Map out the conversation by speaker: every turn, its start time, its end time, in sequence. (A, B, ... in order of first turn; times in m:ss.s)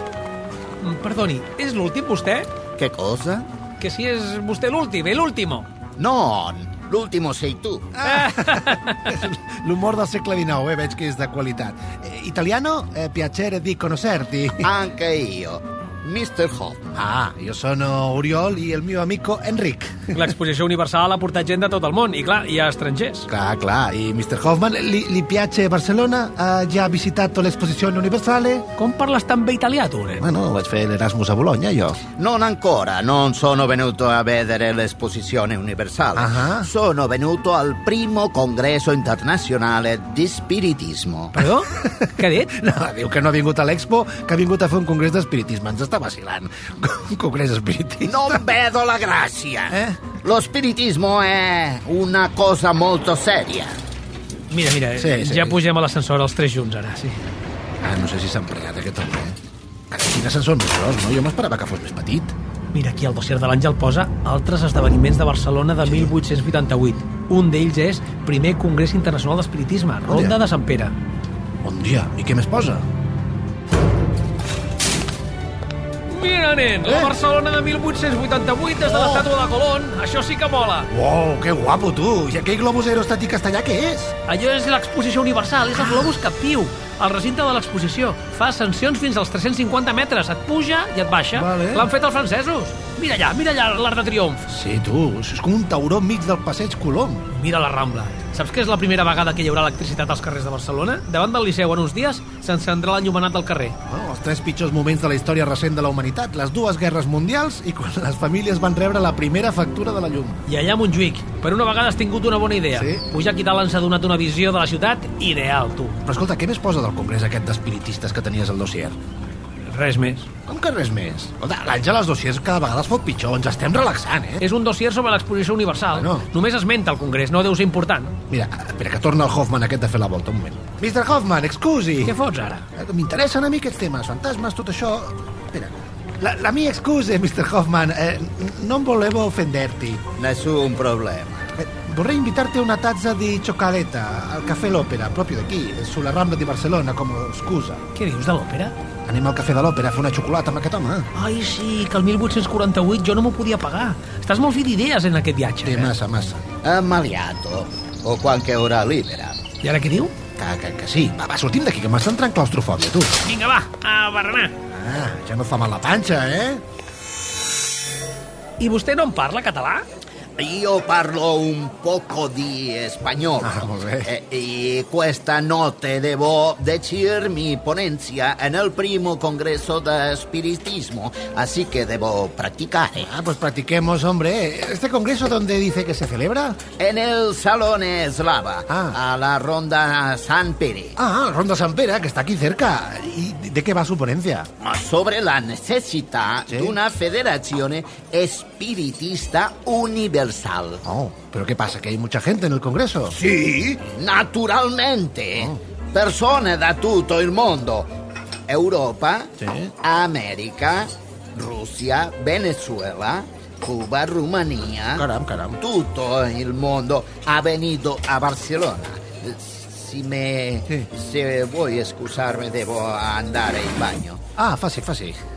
0:00.8-0:02.5 A
0:02.8-0:03.5 B
0:03.8-0:05.7 A
0:06.0-0:08.0 B
0:08.0-0:14.7 C
0:08.0-0:09.0 A
0:14.6-0:16.8 B
0:17.0-0:20.3 C
0:20.1-0:23.3 A
0:23.3-0:28.7 C
0:28.8-0:30.3 A
0:30.2-0:32.0 C
0:32.2-0:41.3 B
0:36.2-0:36.7 C
0:41.3-0:42.5 A
0:41.7-0:48.5 C
0:48.0-0:53.8 B
0:49.7-0:50.1 C
0:54.5-0:57.2 A
0:55.0-0:55.6 C
0:57.8-0:59.4 C
0:59.9-1:02.4 C
1:02.7-1:10.9 A
1:10.1-1:10.4 C
1:11.6-1:12.9 C
1:16.1-1:20.9 A
1:16.8-1:17.1 C
1:18.8-1:19.3 C
1:20.9-1:24.2 C
1:24.3-1:34.5 A
1:25.7-1:26.2 C
1:31.3-1:31.9 C
1:34.5-1:37.3 C
1:37.3-1:43.8 A
1:43.9-1:50.4 C
1:50.5-1:56.0 A
1:52.8-1:53.0 C
1:56.0-1:59.0 C
1:59.7-2:00.3 A
2:00.5-2:04.4 C
2:04.4-2:08.2 A
2:05.9-2:06.3 C
2:08.3-2:12.2 C
2:12.0-2:12.7 A
2:12.8-2:20.1 C
2:20.2-2:21.5 B
2:21.6-2:27.8 C
2:28.0-2:28.8 A
2:29.1-2:31.1 C
2:31.2-2:35.9 A
2:35.6-2:36.4 C
2:36.6-2:39.4 B
2:39.6-2:40.1 A
2:40.4-2:43.2 C
2:43.2-2:44.5 A
2:44.7-2:46.6 C
2:48.6-2:49.8 A
2:50.4-3:03.1 B
2:53.4-2:54.1 C
3:03.0-3:06.6 C
3:06.8-3:11.0 B
3:08.7-3:09.0 C
3:11.0-3:14.5 C
3:14.6-3:20.8 B
3:16.5-3:16.8 C
3:20.8-3:23.2 C
3:23.2-3:27.9 B
3:28.5-3:35.1 B
3:29.4-3:29.7 C
3:35.0-3:35.6 C
3:35.6-3:44.2 B
3:44.4-3:45.2 C